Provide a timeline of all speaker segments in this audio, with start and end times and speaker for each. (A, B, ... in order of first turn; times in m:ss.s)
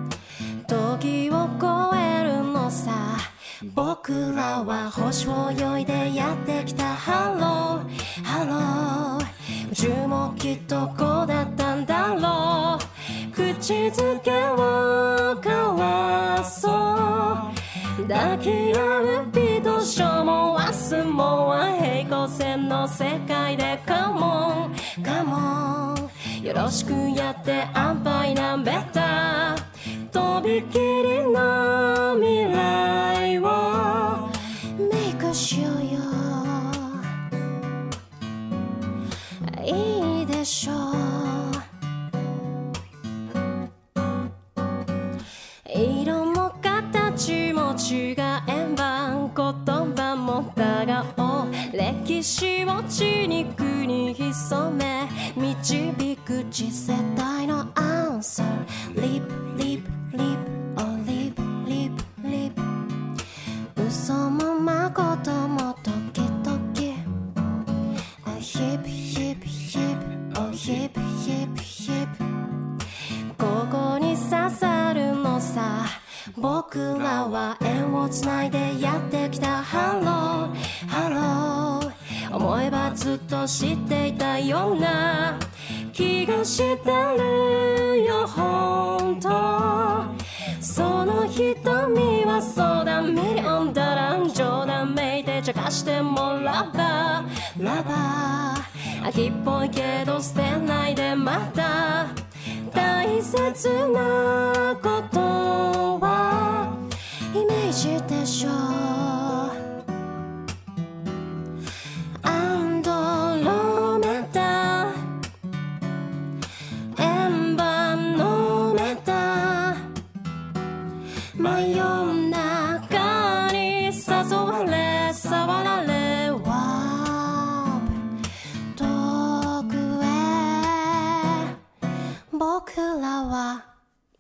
0:00.6-0:37.1 A
0:39.4-0:41.7 A
0:45.6-1:02.7 A
1:03.8-1:07.1 A
1:08.2-1:12.3 A
1:13.3-1:49.6 A
1:52.2-1:55.1 A
1:56.9-1:59.9 A
2:01.4-2:08.0 A
2:08.7-2:11.5 A
2:12.3-2:13.7 A